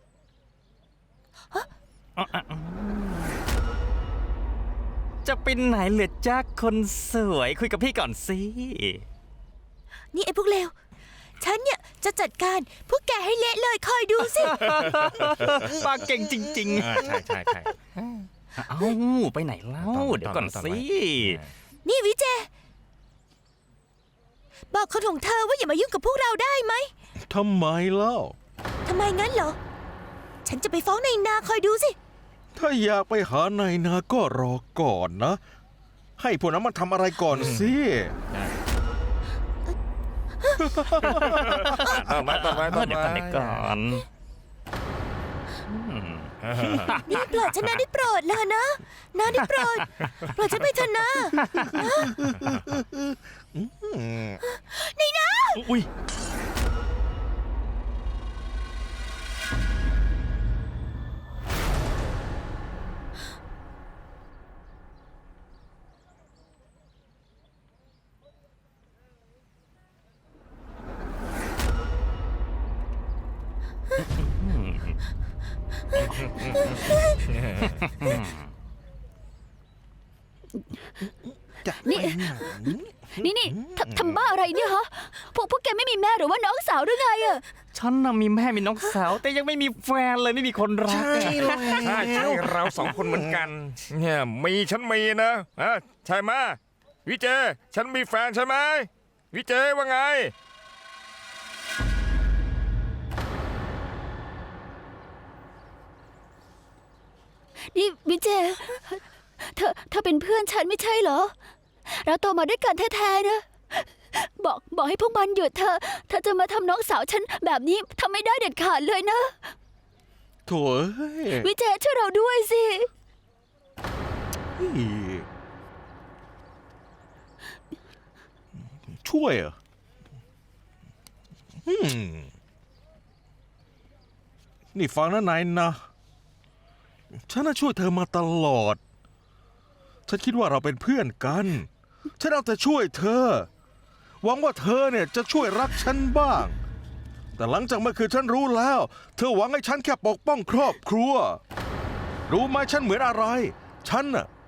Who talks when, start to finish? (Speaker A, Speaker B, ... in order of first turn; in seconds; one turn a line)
Speaker A: 2.2-3.3
Speaker A: 5.2-9.1
Speaker B: 10.1-10.7
Speaker B: 11.4-14.7
Speaker A: 14.3-21.4
Speaker C: 15.0-15.5
Speaker C: 16.7-17.7
Speaker C: 19.8-21.5
Speaker B: 21.9-22.5
Speaker B: 24.7-26.9
Speaker D: 27.2-28.4
Speaker B: 28.9-29.6
Speaker B: 30.4-32.0
Speaker D: 32.5-35.4
Speaker D: 36.2-38.1
Speaker C: 37.4-37.7
Speaker D: 40.6-41.4
Speaker A: 41.0-44.1
Speaker C: 41.1-43.7
Speaker A: 45.7-47.3
Speaker C: 46.4-47.0
Speaker B: 47.0-52.2
Speaker A: 49.6-50.1
Speaker A: 51.4-51.7
Speaker D: 52.0-54.2
Speaker B: 54.4-55.7
Speaker A: 55.6-55.9
Speaker A: 74.0-75.0
Speaker A: 77.9-78.4
Speaker D: 81.6-83.9
Speaker E: 81.7-82.7
Speaker E: 83.2-87.4
Speaker A: 87.7-91.8
Speaker D: 90.9-93.5
Speaker C: 91.2-100.3
Speaker E: 107.7-111.3
Speaker E: 111.9-119.4
Speaker D: 120.5-121.5
Speaker E: 121.3-122.9
Speaker D: 124.6-125.3
Speaker D: 129.0-129.6
Speaker D: 131.7-132.3
Speaker D: 134.8-135.8
Speaker D: 137.3-138.8
Speaker D: 140.1-143.5
Speaker D: 144.2-146.6
Speaker D: 147.4-151.4
Speaker D: 152.3-154.3